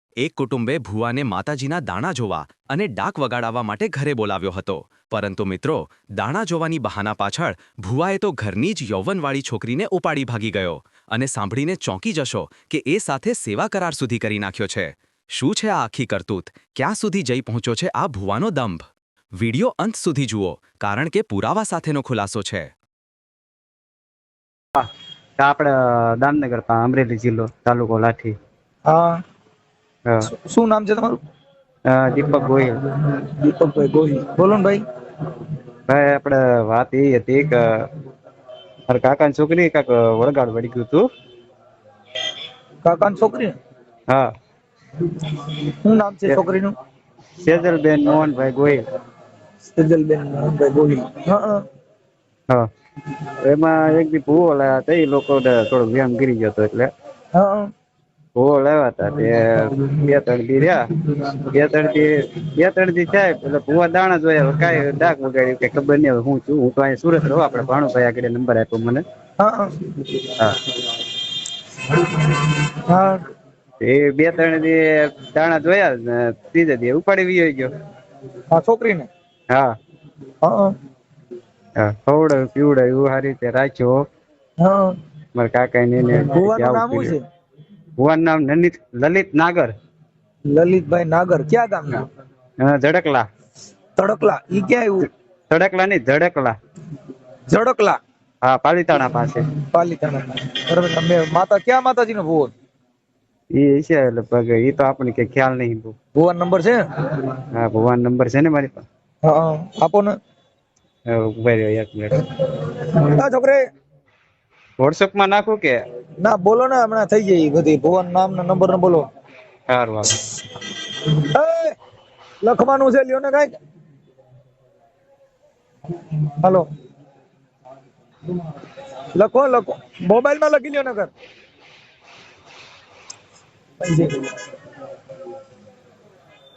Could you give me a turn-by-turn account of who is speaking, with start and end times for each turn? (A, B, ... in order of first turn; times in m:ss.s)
0:00.2-0:18.9 A
0:19.4-0:22.7 A
0:24.8-0:28.4 B
0:28.9-0:29.2 C
0:30.2-0:31.2 C
0:31.9-0:32.8 B
0:33.1-0:34.8 C
0:35.9-0:37.8 B
0:38.9-0:41.1 B
0:42.8-0:43.5 C
0:45.8-0:46.8 C
0:47.4-0:48.8 B
0:49.8-0:51.6 C
0:53.4-0:56.9 B
0:57.3-0:57.7 C
0:58.4-1:00.9 B
1:01.5-1:09.0 B
1:09.4-1:09.7 C
1:12.9-1:13.2 C
1:13.8-1:17.7 B
1:18.5-1:19.1 C
1:20.4-1:20.7 C
1:21.8-1:24.0 B
1:24.6-1:24.9 C
1:25.4-1:27.2 B
1:26.3-1:27.2 C
1:28.0-1:29.7 B
1:30.5-1:32.0 C
1:32.6-1:33.3 B
1:34.0-1:35.1 C
1:35.5-1:36.5 B
1:37.5-1:38.0 C
1:38.4-1:39.5 B
1:39.7-1:42.5 C
1:43.6-1:46.0 B
1:46.2-1:46.8 C
1:47.5-1:48.8 B
1:49.2-1:50.1 C
1:51.1-1:52.2 B
1:53.1-1:53.6 C
1:54.8-1:55.8 B
1:56.2-1:59.0 C
1:59.7-2:00.1 B
2:01.3-2:01.7 C
2:02.4-2:03.5 C
2:09.2-2:11.1 C
2:13.8-2:14.3 C